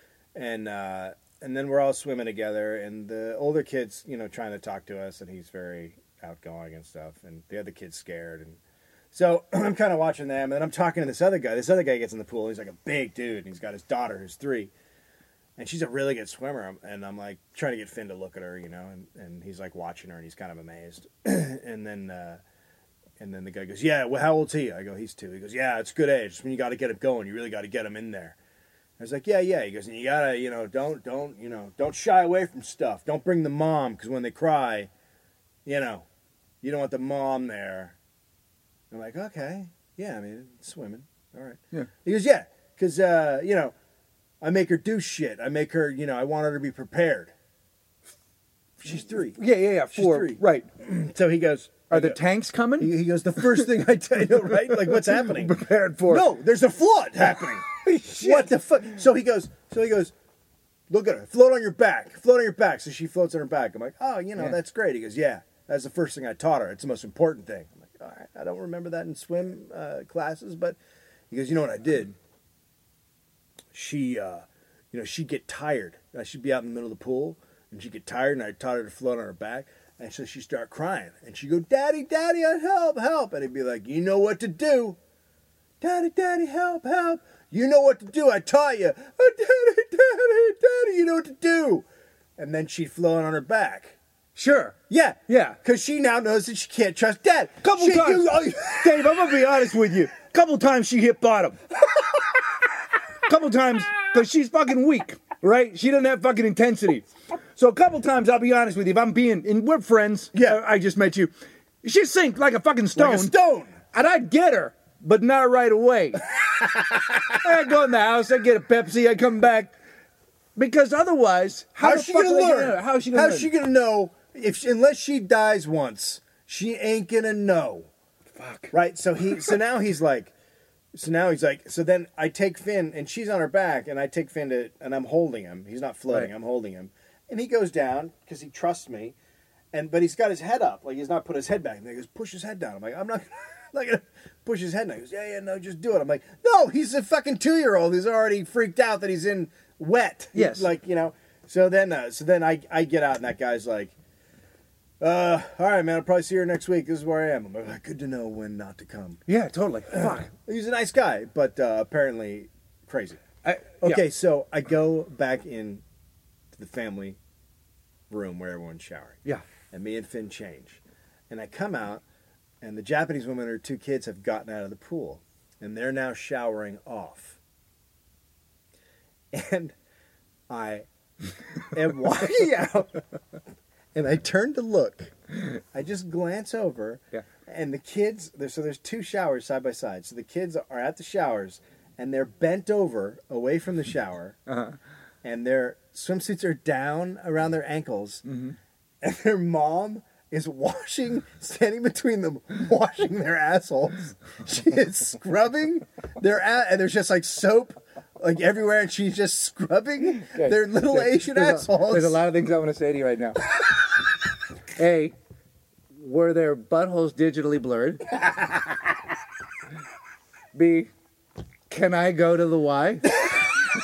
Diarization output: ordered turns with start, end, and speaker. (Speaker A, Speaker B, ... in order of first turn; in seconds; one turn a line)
Speaker A: 0.3-8.6
Speaker A: 9.1-14.7
Speaker A: 15.6-22.4
Speaker A: 23.2-28.4
Speaker A: 29.0-34.9
Speaker A: 35.6-36.1
Speaker A: 36.6-38.0
Speaker A: 38.9-43.7
Speaker A: 44.4-47.3
Speaker A: 48.8-49.4
Speaker B: 49.4-50.7
Speaker A: 49.9-52.2
Speaker B: 51.9-53.7
Speaker A: 52.8-55.5
Speaker B: 54.5-56.3
Speaker A: 56.1-60.1
Speaker B: 57.8-58.5
Speaker A: 60.9-70.8
Speaker A: 71.3-72.2
Speaker A: 73.7-85.0
Speaker A: 85.8-91.9
Speaker A: 92.4-94.0
Speaker B: 94.4-94.8
Speaker A: 94.9-99.2
Speaker B: 95.3-95.6
Speaker B: 97.6-101.6
Speaker B: 103.3-113.3
Speaker A: 110.3-110.6
Speaker A: 113.0-113.8
Speaker B: 113.9-116.2
Speaker B: 117.4-119.7
Speaker B: 120.6-123.5
Speaker A: 121.8-127.9
Speaker B: 128.3-128.7
Speaker A: 128.7-130.3
Speaker A: 130.9-139.2
Speaker A: 139.7-153.9
Speaker B: 150.3-150.7
Speaker A: 155.0-159.2
Speaker B: 159.3-160.3
Speaker A: 159.9-163.2
Speaker B: 163.4-164.0
Speaker A: 163.8-165.8
Speaker A: 166.5-167.2
Speaker A: 168.1-172.0
Speaker A: 172.6-177.4
Speaker A: 179.3-179.8
Speaker A: 180.5-180.9
Speaker A: 181.7-183.0
Speaker A: 183.9-185.1
Speaker A: 185.7-194.4
Speaker B: 194.5-194.8
Speaker A: 195.2-198.2
Speaker B: 198.3-198.6
Speaker A: 199.0-212.2
Speaker B: 210.2-213.5
Speaker B: 214.8-215.2
Speaker B: 216.0-218.1
Speaker B: 220.6-220.9
Speaker B: 221.7-223.2